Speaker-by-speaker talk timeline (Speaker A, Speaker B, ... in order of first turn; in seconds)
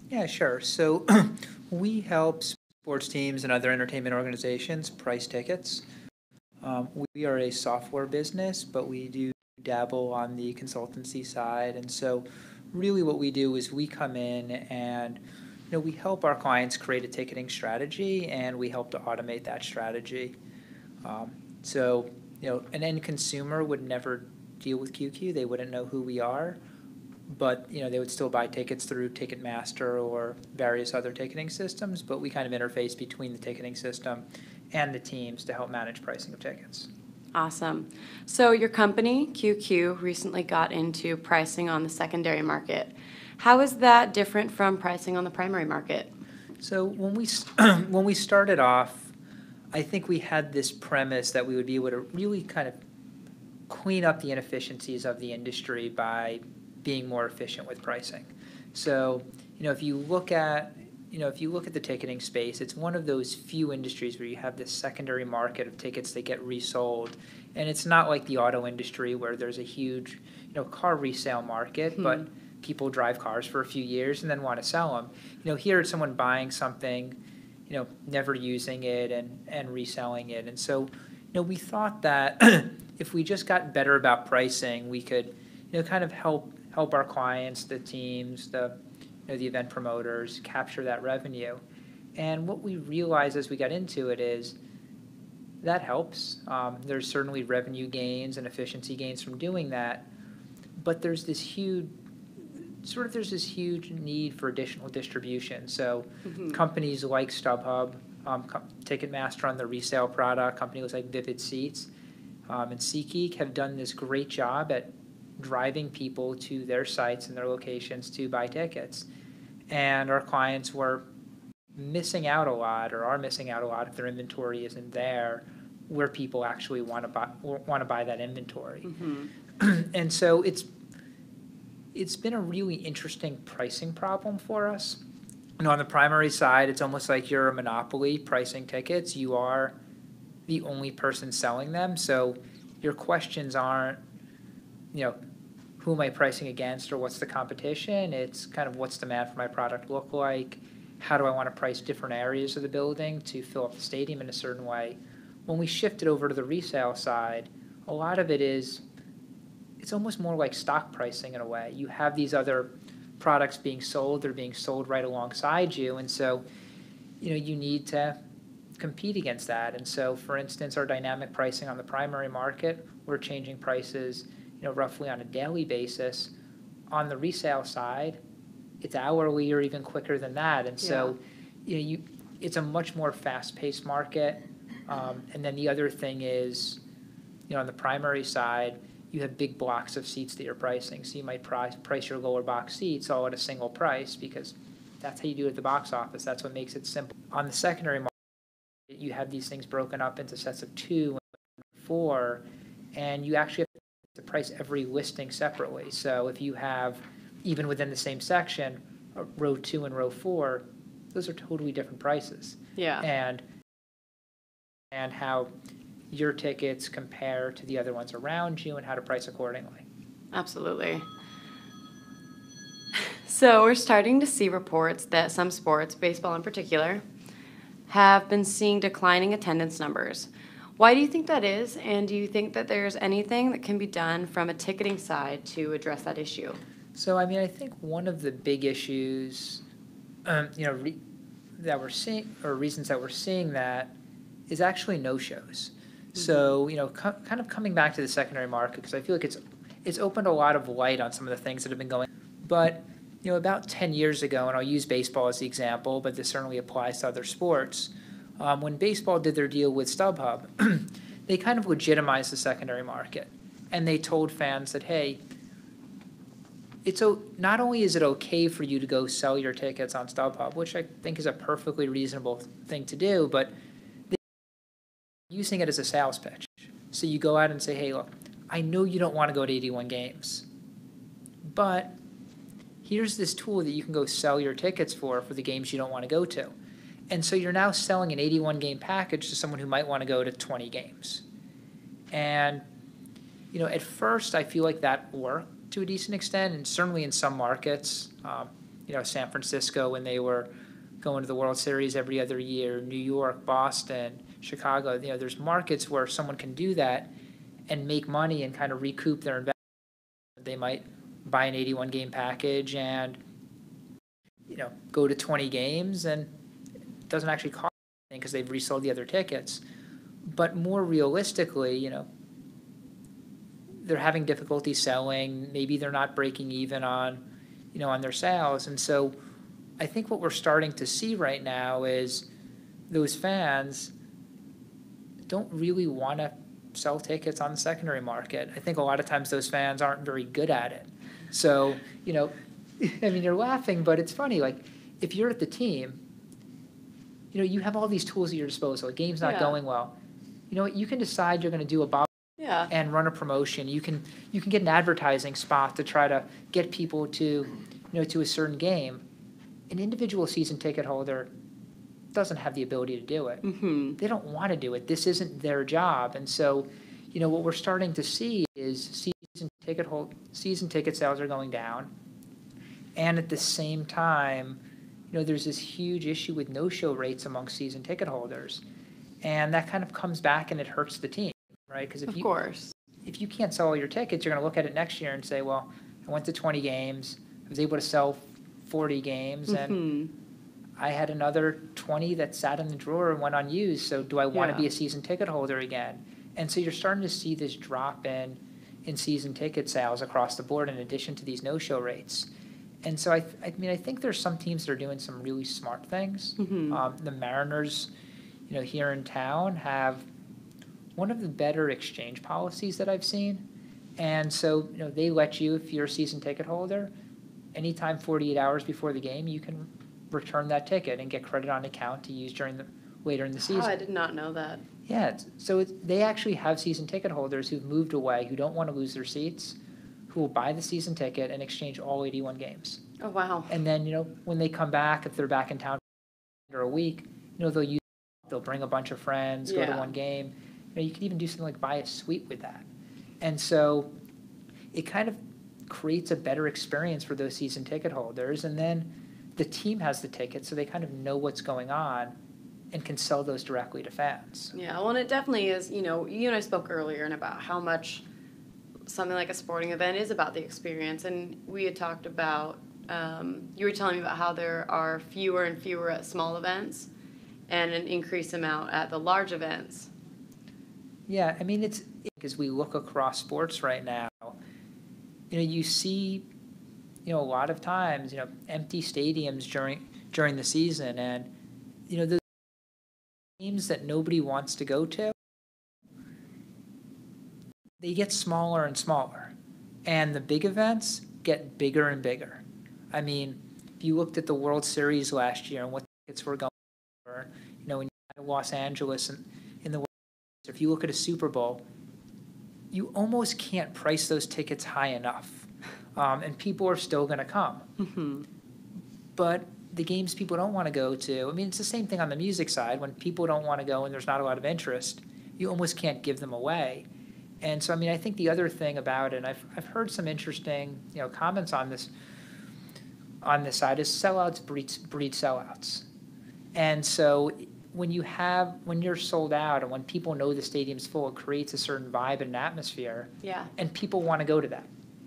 Speaker A: 0.1-5.8, 6.6-20.4, 21.0-26.6, 27.3-36.9, 46.6-49.1, 49.7-52.8, 53.7-88.8, 89.3-91.6, 92.2-94.6, 95.6-100.1, 100.8-111.9, 112.5-119.0, 119.7-121.0, 121.7-128.9, 129.6-130.7, 131.9-135.0, 135.6-139.8, 140.5-144.0, 145.8-158.8, 159.8-166.4, 167.2-168.2, 168.8-176.3, 176.9-178.2, 178.8-186.8, 187.5-198.2, 198.9-202.4, 202.9-213.4, 214.9-215.5, 216.1-219.8, 236.9-239.6, 240.2-241.0, 241.6-243.9, 244.5-265.2, 266.8-273.5, 275.3-280.4, 281.4-281.9, 282.8-286.5, 287.1-291.2, 292.1-292.6, 293.5-300.5, 301.0-307.1, 307.7-309.6, 310.3-313.2, 314.5-316.3, 317.1-319.6, 320.2-322.1, 323.8-327.2, 327.7-329.1, 329.8-332.3, 332.9-333.9, 335.3-346.0, 347.3-349.9, 350.5-352.1, 352.7-359.0, 359.7-361.3, 362.1-363.4, 364.0-371.9, 372.9-374.6, 375.1-378.6, 379.2-382.3, 383.0-389.8, 390.8-402.3, 402.8-407.9, 408.5-410.1, 410.9-416.9, 417.5-423.7, 424.9-432.8, 433.5-442.6, 443.2-443.9, 444.7-452.1, 452.7-454.5, 471.1-474.4, 475.3-476.2, 477.0-481.3, 481.9-482.4, 483.4-485.2, 487.8-489.3, 489.8-501.6, 502.7-507.6, 509.1-516.9, 517.4-521.9, 523.2-525.9, 526.5-534.7
Speaker B: 37.3-46.1, 106.3-106.6, 128.9-129.3, 180.8-181.1, 212.8-213.0, 220.3-221.1, 222.9-227.0, 227.9-236.6, 349.2-349.6, 352.4-352.7, 363.4-364.0, 382.1-382.7, 389.5-390.1, 394.3-394.6, 406.4-406.8, 423.4-424.6, 433.0-433.5, 439.4-439.9, 454.5-458.0, 458.9-466.9, 467.5-469.9, 507.8-508.2, 533.2-533.5